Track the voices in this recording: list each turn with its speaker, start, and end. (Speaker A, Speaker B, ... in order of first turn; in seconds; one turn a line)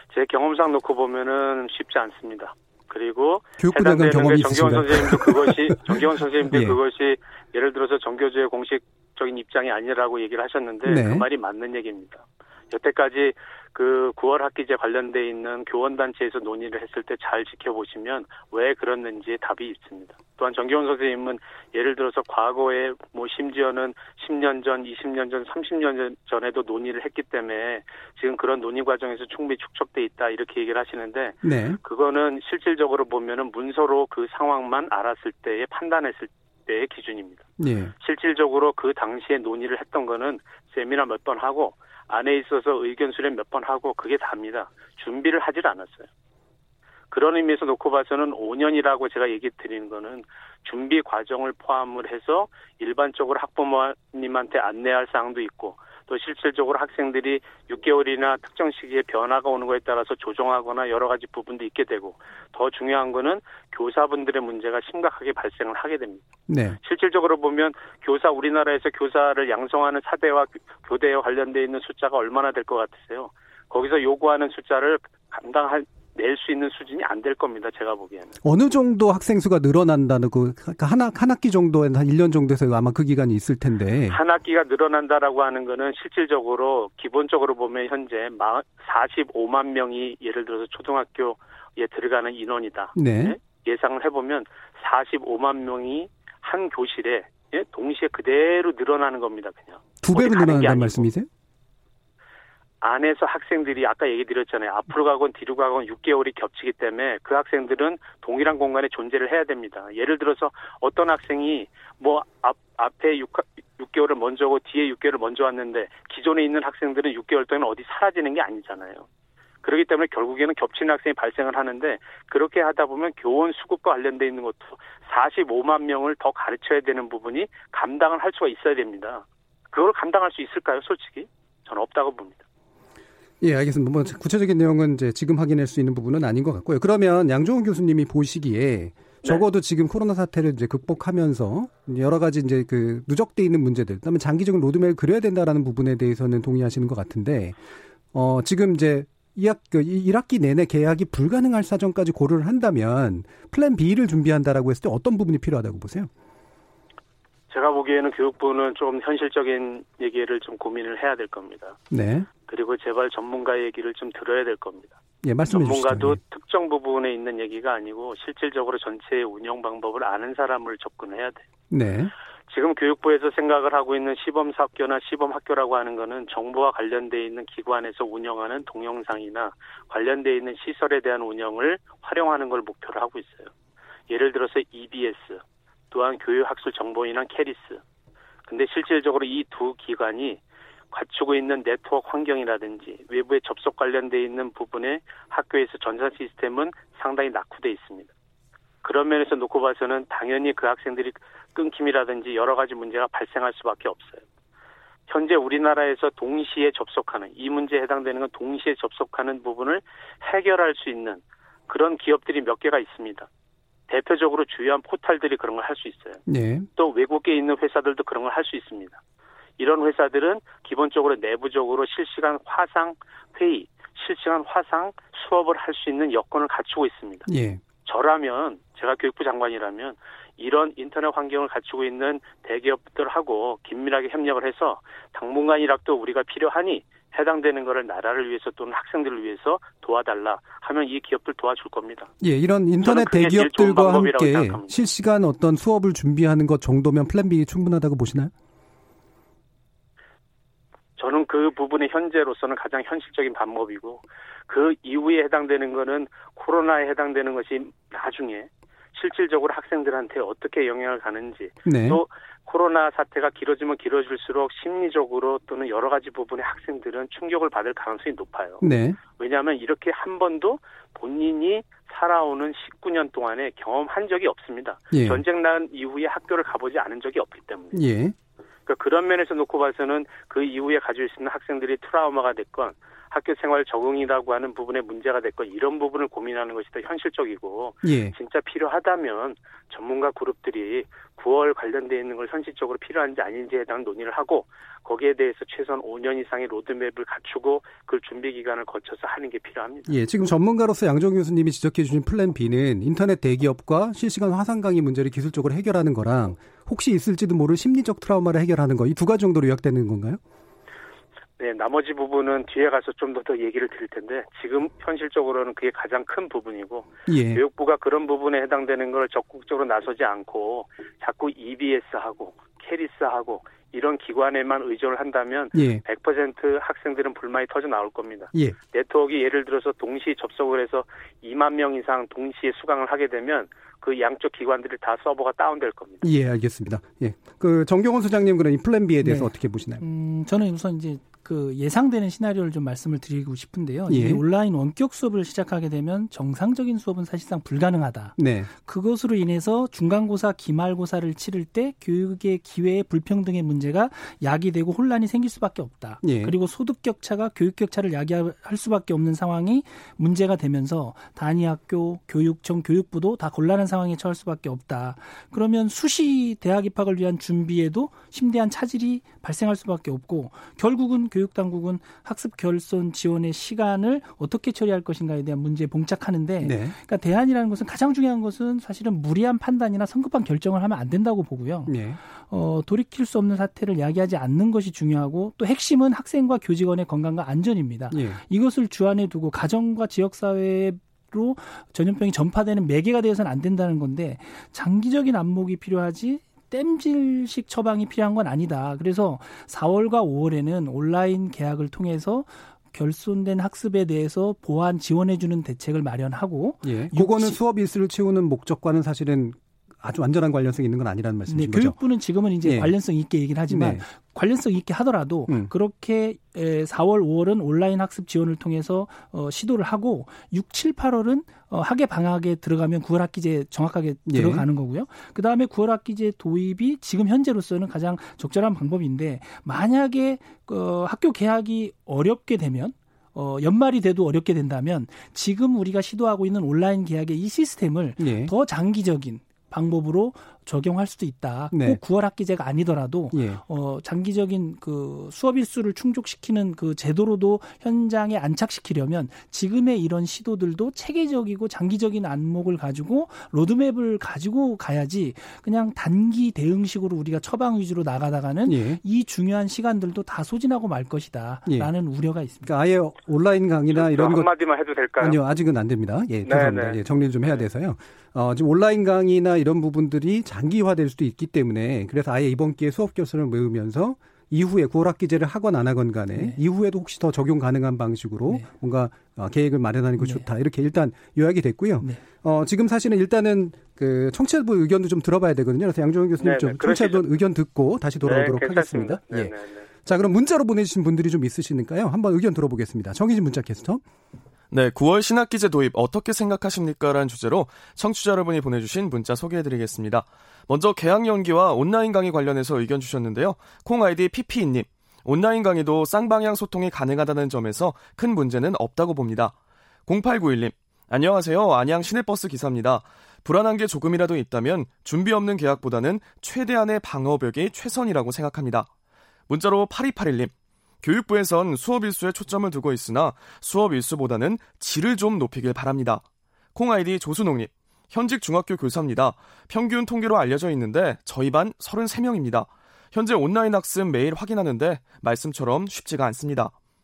Speaker A: 0.1-37.4
Speaker B: 3.6-5.8
Speaker B: 6.5-6.8
Speaker B: 10.8-11.2
Speaker B: 31.4-31.8
Speaker B: 37.6-37.9
Speaker A: 38.0-46.1
Speaker A: 47.1-66.2
Speaker B: 66.5-66.8
Speaker A: 66.8-78.3
Speaker B: 78.4-84.2
Speaker A: 84.1-101.1
Speaker B: 92.9-93.3
Speaker B: 100.0-101.3
Speaker A: 102.8-119.0
Speaker A: 119.6-132.4
Speaker B: 133.4-147.6
Speaker B: 148.1-156.1
Speaker A: 157.5-161.8
Speaker B: 161.9-162.3
Speaker A: 162.5-171.4
Speaker B: 165.2-166.2
Speaker B: 171.7-172.1
Speaker A: 172.5-183.5
Speaker A: 184.1-187.8
Speaker A: 188.5-190.4
Speaker A: 190.9-198.1
Speaker A: 198.8-204.2
Speaker A: 205.1-213.3
Speaker A: 213.9-216.2
Speaker B: 216.3-216.7
Speaker A: 216.8-219.0
Speaker A: 219.6-227.3
Speaker B: 227.3-227.6
Speaker A: 227.8-242.1
Speaker B: 242.2-248.3
Speaker A: 242.8-244.8
Speaker A: 251.0-268.6
Speaker B: 261.6-262.0
Speaker B: 268.6-269.0
Speaker A: 269.1-277.8
Speaker B: 274.9-275.2
Speaker B: 277.7-278.1
Speaker A: 278.7-300.0
Speaker B: 287.8-288.1
Speaker B: 299.9-310.2
Speaker A: 311.4-336.0
Speaker B: 317.1-317.4
Speaker B: 325.5-325.8
Speaker B: 336.0-339.8
Speaker C: 339.0-407.4
Speaker B: 343.9-344.2
Speaker B: 348.2-348.5
Speaker B: 356.0-356.3
Speaker B: 376.4-376.8
Speaker B: 381.7-382.0
Speaker B: 387.9-388.2
Speaker B: 406.6-411.8
Speaker C: 411.3-462.5
Speaker B: 412.4-412.7
Speaker B: 413.5-413.8
Speaker B: 424.1-424.4
Speaker B: 438.0-438.3
Speaker B: 441.5-441.8
Speaker B: 443.1-443.4
Speaker B: 458.4-458.8
Speaker B: 461.4-461.7
Speaker B: 462.4-464.3
Speaker A: 463.7-465.2
Speaker B: 465.0-493.8
Speaker A: 466.2-467.4
Speaker C: 480.0-480.3
Speaker A: 486.2-487.0
Speaker A: 488.0-489.6
Speaker D: 494.5-509.3
Speaker D: 509.9-518.7
Speaker D: 519.3-526.0
Speaker D: 526.5-536.5